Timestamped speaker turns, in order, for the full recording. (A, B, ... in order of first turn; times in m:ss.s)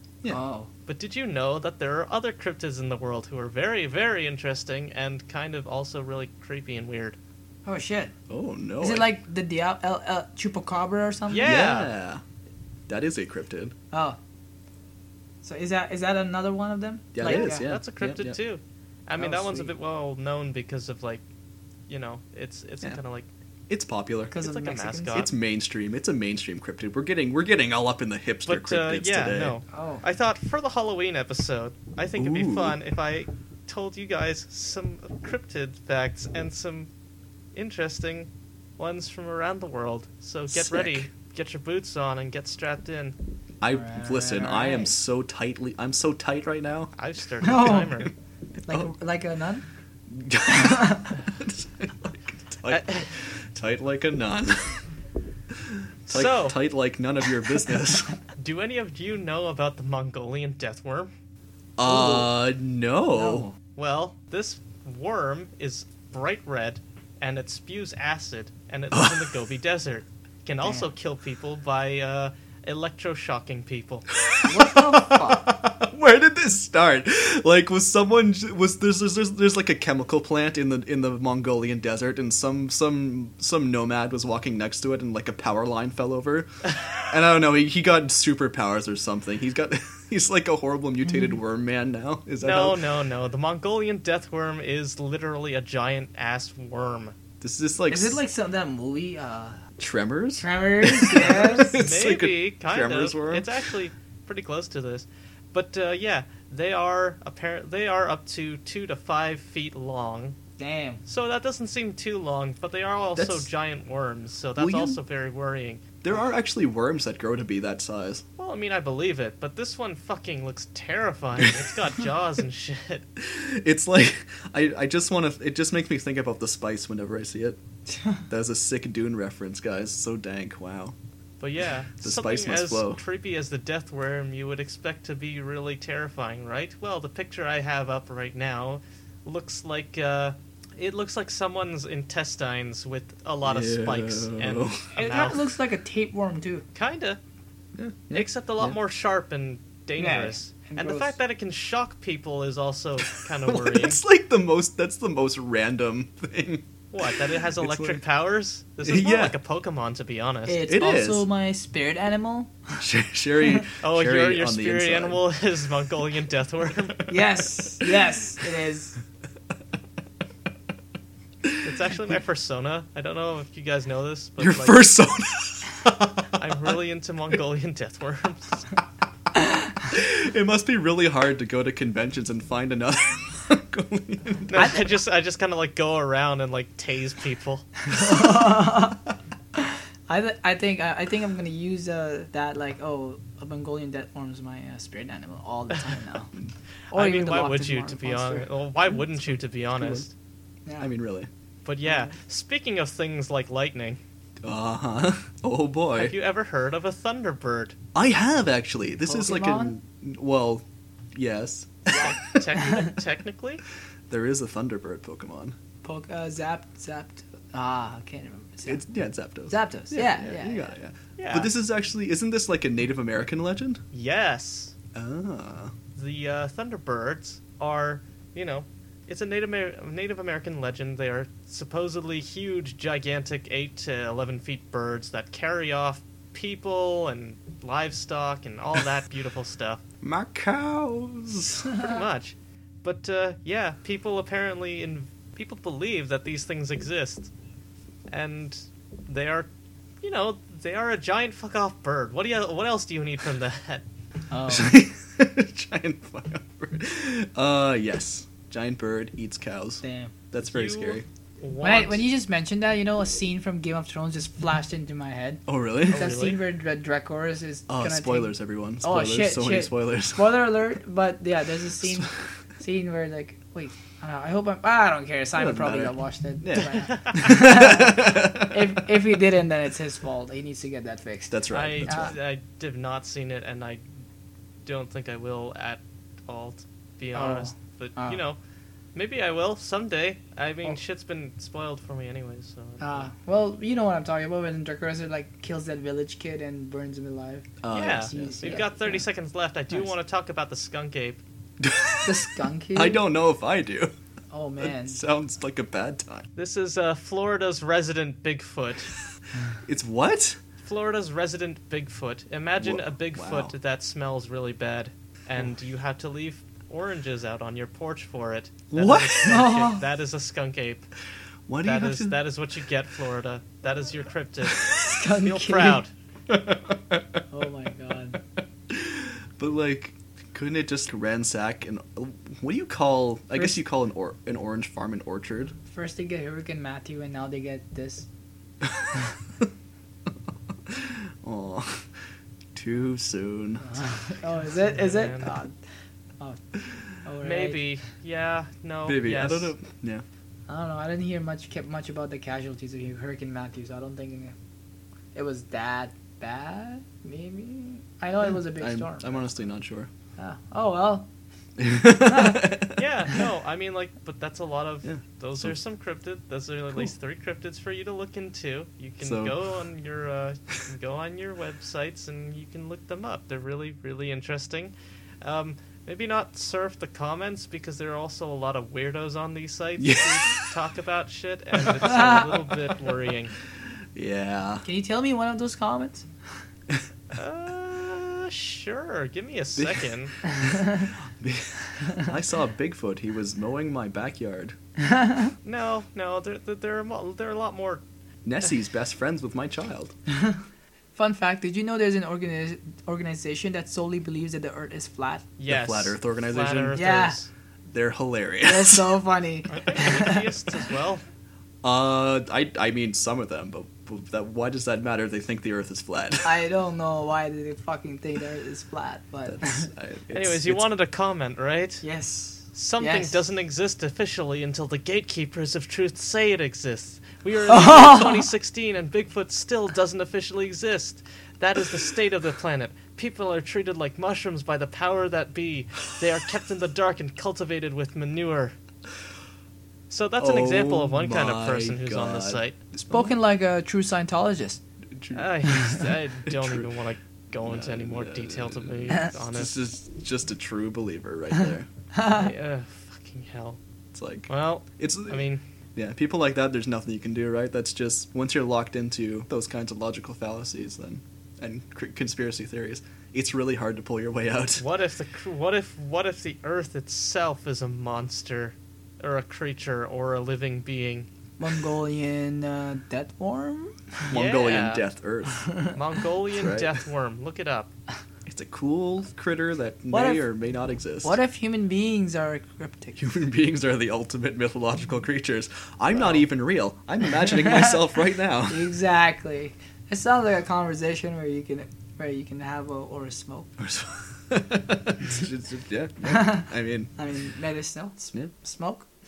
0:00.3-0:00.7 A
0:00.9-0:07.2 B
0:07.6-0:08.1 A
0:08.3-0:09.1 C
0:08.8-0:11.6 A
0:11.3-0:11.9 B
0:11.4-0:12.2 C
0:12.9-0:13.7 C
0:13.9-0:14.2 A
0:15.4-0:17.7 A
0:17.1-0:18.4 C
0:17.2-0:21.2 B
0:19.2-0:19.7 A
0:21.9-0:23.3 B
0:23.7-0:24.3 C
0:24.3-0:25.3 A
0:24.3-0:25.3 B
0:25.1-0:29.6 C
0:28.4-0:36.9 B
0:29.7-0:30.0 A
0:32.2-0:32.8 C
0:37.5-0:43.2 B
0:40.5-0:41.1 C
0:43.6-0:46.9 C
0:43.7-0:44.9 A
0:47.0-0:48.1 B
0:47.4-0:48.0 A
0:48.7-0:49.6 A
0:48.7-0:48.9 C
0:50.1-0:54.8 C
0:50.5-0:51.2 A
0:52.7-0:53.1 B
0:55.5-0:58.2 C
0:56.1-0:56.6 B
0:58.4-1:01.1 B
1:01.8-1:03.5 C
1:01.8-1:02.3 A
1:03.1-1:03.5 A
1:03.8-1:14.1 B
1:08.9-1:09.2 C
1:14.1-1:26.5 C
1:14.4-1:15.5 A
1:27.1-1:32.8 C
1:32.4-1:37.1 B
1:37.4-1:38.2 C
1:37.9-1:39.6 A
1:39.8-1:43.5 C
1:40.4-1:41.8 A
1:41.7-1:50.4 B
1:50.6-1:51.0 A
1:51.0-1:55.8 B
1:53.2-1:53.5 C
1:54.6-1:55.0 C
1:56.0-1:58.2 C
1:58.4-2:03.0 B
2:03.2-2:07.6 C
2:08.3-2:11.0 C
2:11.4-2:25.5 B
2:12.0-2:13.0 C
2:23.4-2:24.9 C
2:24.9-2:26.6 A
2:26.7-2:27.2 B
2:27.8-2:28.8 C
2:28.1-2:34.0 B
2:30.0-2:31.1 A
2:33.4-2:38.0 C
2:36.9-2:40.6 B
2:38.8-2:39.4 C
2:40.4-2:42.8 A
2:40.6-2:41.2 C
2:42.8-2:45.2 C
2:43.8-2:47.0 B
2:47.1-2:49.0 A
2:51.6-2:54.8 B
2:54.4-2:56.5 C
2:56.4-2:58.6 B
2:59.8-3:04.8 C
3:04.5-3:07.7 B
3:04.6-3:04.8 A
3:07.9-3:09.0 A
3:09.6-3:16.3 A
3:16.9-3:18.5 A
3:16.9-3:20.1 B
3:19.8-3:20.0 C
3:20.8-3:21.3 C
3:21.6-3:24.0 B
3:21.8-3:22.1 A
3:24.4-3:26.1 C
3:25.9-3:27.8 B
3:27.9-3:32.4 C
3:29.0-3:29.8 A
3:31.9-3:32.9 A
3:31.9-3:33.6 B
3:34.1-3:35.6 C
3:35.8-3:38.8 A
3:38.7-3:43.8 C
3:39.5-3:40.7 A
3:41.2-3:41.5 B
3:43.9-3:44.7 B
3:44.9-3:45.7 C
3:45.9-3:59.8 B
4:00.0-4:01.8 C
4:01.8-4:07.3 B
4:08.1-4:09.5 B
4:10.0-4:13.8 B
4:14.3-4:14.8 A
4:14.5-4:21.0 C
4:19.8-4:20.1 A
4:20.4-4:22.0 B
4:21.6-4:42.1 A
4:25.5-4:26.2 C
4:25.9-4:26.4 B
4:27.7-4:30.3 C
4:31.8-4:32.1 C
4:35.4-4:38.8 C
4:36.6-4:37.2 B
4:41.3-4:42.1 C
4:41.5-4:43.8 B
4:44.6-4:48.4 B
4:47.1-4:48.2 A
4:48.9-4:53.1 B
4:52.8-4:59.0 A
4:57.6-4:58.5 C
4:57.7-5:01.2 B
5:01.6-5:03.9 C
5:02.0-5:03.0 A
5:04.3-5:05.0 A
5:04.6-5:06.3 C
5:06.4-5:08.9 B
5:09.6-5:10.4 C
5:10.6-5:20.9 B
5:12.6-5:13.5 C
5:18.7-5:19.4 C
5:19.2-5:19.8 A
5:21.5-5:22.2 C
5:21.6-5:25.9 B
5:24.8-5:25.8 A
5:26.3-5:27.2 C
5:27.3-5:28.2 A
5:28.7-5:35.6 C
5:33.4-5:33.6 A
5:35.6-5:38.1 A
5:38.6-5:38.9 C
5:40.6-5:41.9 C
5:42.5-5:43.8 C
5:43.6-5:45.6 A
5:44.7-5:45.3 B
5:47.0-5:47.6 A
5:47.2-5:49.5 B
5:48.8-5:50.0 C
5:50.5-5:54.3 A
5:55.1-5:59.3 A
5:58.5-5:59.9 C
6:00.2-6:01.1 A
6:01.6-6:02.8 C
6:02.0-6:02.5 A
6:02.7-6:23.3 B
6:04.8-6:05.5 C
6:09.0-6:09.4 C
6:19.8-6:20.4 C
6:21.6-6:22.5 C
6:22.0-6:22.2 A
6:23.9-6:24.6 C
6:24.6-6:26.0 A
6:27.1-6:30.1 B
6:29.6-6:29.8 C
6:31.2-6:34.6 C
6:34.8-6:35.3 A
6:35.4-6:37.8 B
6:38.2-6:39.9 C
6:41.0-6:45.3 A
6:45.4-6:47.3 B
6:45.5-6:46.8 C
6:46.7-6:47.2 A
6:47.7-6:48.9 C
6:48.4-6:50.2 A
6:49.5-6:51.0 B
6:51.6-6:56.3 C
6:56.2-6:59.7 A
6:59.3-7:00.6 C
7:00.1-7:01.8 B
7:01.8-7:03.2 A
7:02.5-7:18.6 B
7:07.5-7:08.2 A
7:19.9-7:22.6 B
7:20.2-7:22.4 C
7:22.8-7:24.6 A
7:24.9-7:26.7 C
7:25.1-7:29.5 B
7:27.4-7:31.7 C
7:31.9-7:32.3 A
7:32.0-7:33.6 B
7:33.9-7:35.2 C
7:34.3-7:35.4 B
7:35.8-7:44.6 C
7:44.6-7:51.1 B
7:51.4-7:54.1 A
7:54.1-7:55.4 C
7:54.1-7:54.8 B
7:55.4-7:55.7 A
7:55.7-7:57.7 B
7:56.4-7:56.7 C
7:58.2-8:01.2 C
7:59.9-8:00.2 A
8:01.0-8:03.1 A
8:03.0-8:08.7 C
8:07.4-8:07.7 A
8:08.5-8:13.6 A
8:13.6-8:16.9 C
8:16.1-8:16.4 A
8:17.0-8:18.9 A